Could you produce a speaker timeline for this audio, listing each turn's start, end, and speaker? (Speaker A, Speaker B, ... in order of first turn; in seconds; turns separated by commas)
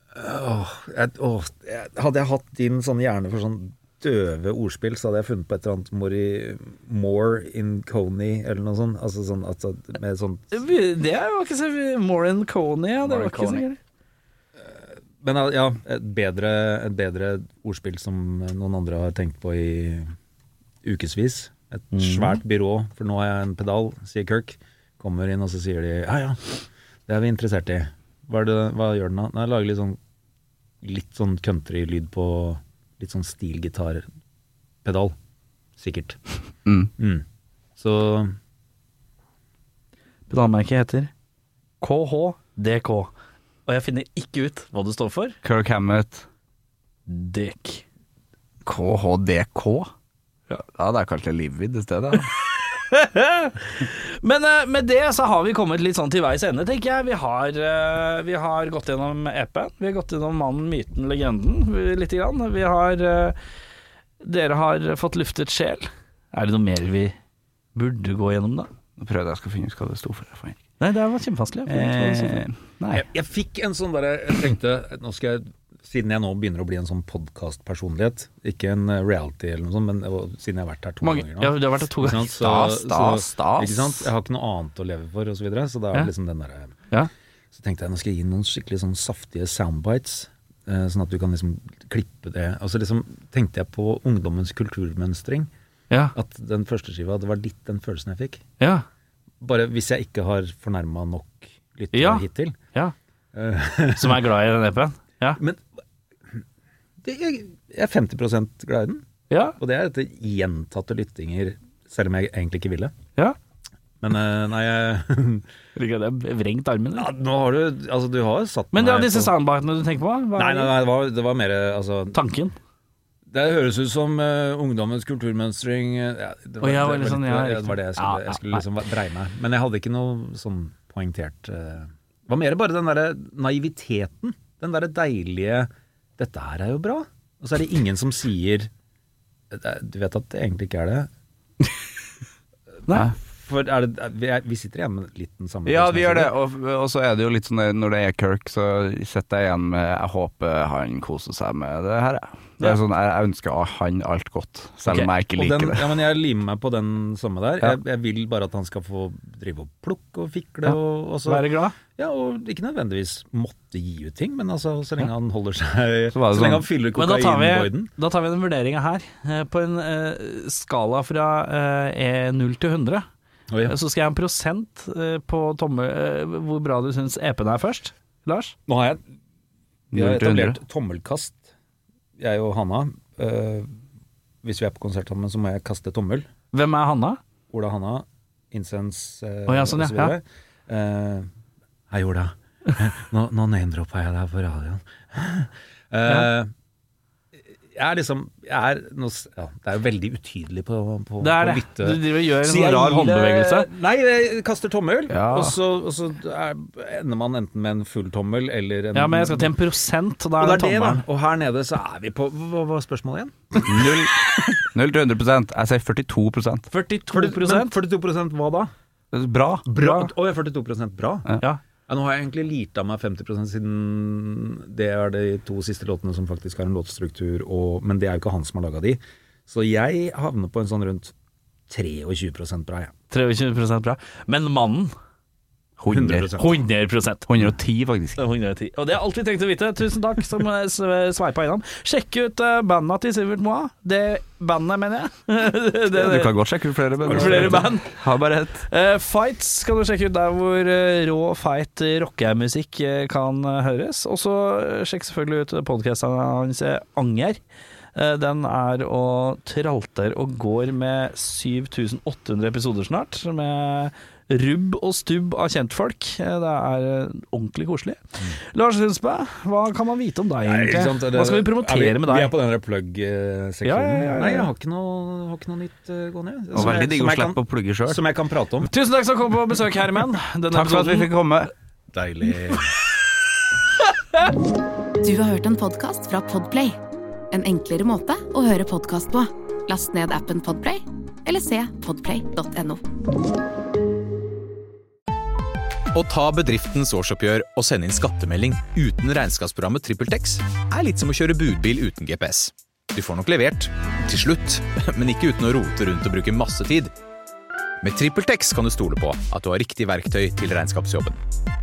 Speaker A: 0.1-10.6, Speaker B: 10.5-13.8, Speaker A: 13.0-13.6, Speaker A: 14.6-20.1, Speaker A: 20.8-30.0, Speaker B: 21.9-22.4, Speaker A: 30.8-34.0, Speaker A: 34.8-35.1, Speaker A: 35.8-36.2, Speaker C: 36.6-36.9, Speaker A: 37.0-37.2, Speaker A: 37.8-38.3, Speaker B: 40.3-41.1, Speaker B: 41.8-43.1, Speaker B: 43.7-45.4, Speaker C: 45.4-46.2, Speaker B: 47.1-47.8, Speaker C: 48.6-49.9, Speaker C: 50.6-52.3, Speaker B: 52.7-63.4, Speaker B: 64.2-67.2, Speaker B: 67.7-68.7, Speaker C: 69.0-70.6, Speaker B: 70.8-72.5, Speaker C: 71.7-73.0, Speaker A: 72.9-86.8, Speaker B: 81.0-82.4, Speaker C: 82.4-84.1, Speaker A: 87.5-95.5, Speaker B: 95.9-96.1, Speaker A: 96.1-98.4, Speaker B: 98.6-98.8, Speaker A: 99.4-102.6, Speaker B: 101.9-102.9, Speaker A: 103.3-104.2, Speaker B: 103.9-105.4, Speaker A: 105.4-105.6, Speaker A: 107.0-109.0, Speaker B: 109.3-109.6, Speaker A: 109.6-112.9, Speaker A: 114.0-115.5, Speaker B: 115.8-117.1, Speaker A: 116.9-119.3, Speaker B: 118.7-120.7, Speaker A: 120.4-122.2, Speaker B: 122.1-122.5, Speaker A: 123.3-138.7, Speaker B: 126.6-128.7, Speaker A: 139.5-141.1, Speaker B: 142.9-143.1, Speaker A: 143.1-146.3, Speaker C: 145.7-155.9, Speaker A: 155.3-167.9, Speaker B: 161.2-161.8, Speaker C: 166.1-166.7, Speaker B: 166.9-173.1, Speaker A: 173.5-173.8, Speaker B: 173.7-178.6, Speaker A: 178.7-179.0, Speaker C: 179.9-180.6, Speaker A: 179.9-181.4, Speaker A: 182.2-183.7, Speaker A: 184.4-186.3, Speaker B: 186.5-187.2, Speaker A: 187.5-191.3, Speaker B: 189.5-190.2, Speaker A: 191.9-196.5, Speaker A: 197.7-209.5, Speaker B: 201.2-203.7, Speaker C: 205.1-205.6, Speaker B: 208.9-211.0, Speaker A: 210.4-213.9, Speaker C: 213.6-216.7, Speaker B: 216.7-217.7, Speaker A: 217.1-218.7, Speaker C: 219.1-219.7, Speaker A: 219.7-221.3, Speaker B: 219.7-220.1, Speaker A: 221.9-231.1, Speaker A: 231.7-232.9, Speaker B: 233.1-234.9, Speaker C: 235.8-236.3, Speaker A: 235.9-236.6, Speaker B: 236.3-237.3, Speaker C: 237.2-238.2, Speaker B: 238.2-246.3, Speaker C: 245.9-248.7, Speaker B: 247.1-248.0, Speaker A: 247.1-247.7, Speaker B: 248.7-257.4, Speaker B: 257.9-272.3, Speaker A: 270.4-278.7, Speaker B: 273.6-274.5, Speaker C: 276.5-278.0, Speaker B: 278.6-281.1, Speaker C: 280.5-281.5, Speaker A: 281.9-282.7, Speaker D: 285.0-286.8, Speaker D: 287.3-292.8, Speaker E: 295.9-306.9, Speaker E: 307.8-311.2